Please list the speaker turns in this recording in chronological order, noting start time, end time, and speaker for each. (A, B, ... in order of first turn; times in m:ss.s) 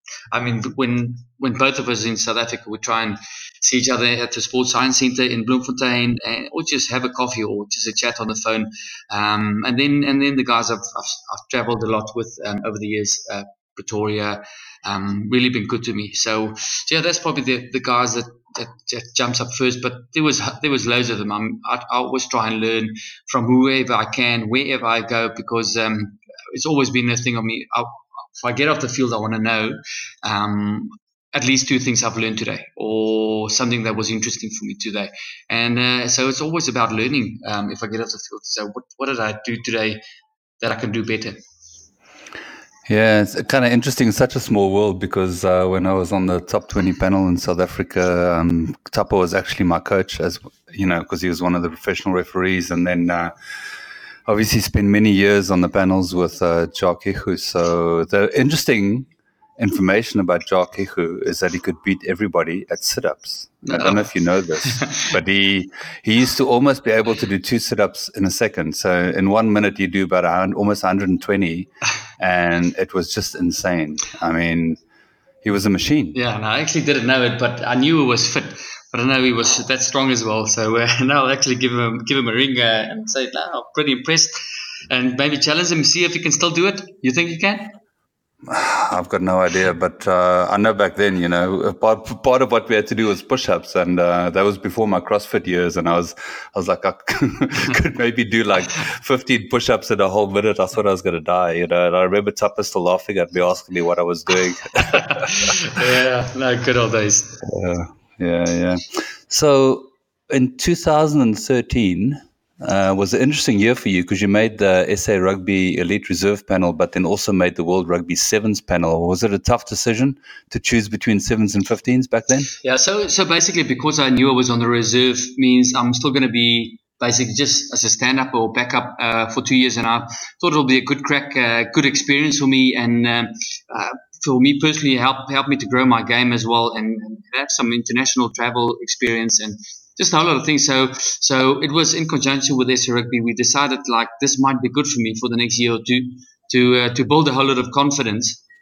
0:00.3-0:40.0 A
0:40.6-0:41.4 A
0:42.9-0:53.3 B
0:54.2-1:14.8 B
1:03.6-1:04.1 A
1:15.4-1:16.2 B
1:16.1-1:24.3 A
1:24.9-1:27.7 A
1:28.5-1:45.1 B
1:45.1-1:47.4 A
1:47.4-2:02.5 B
2:02.6-2:28.4 A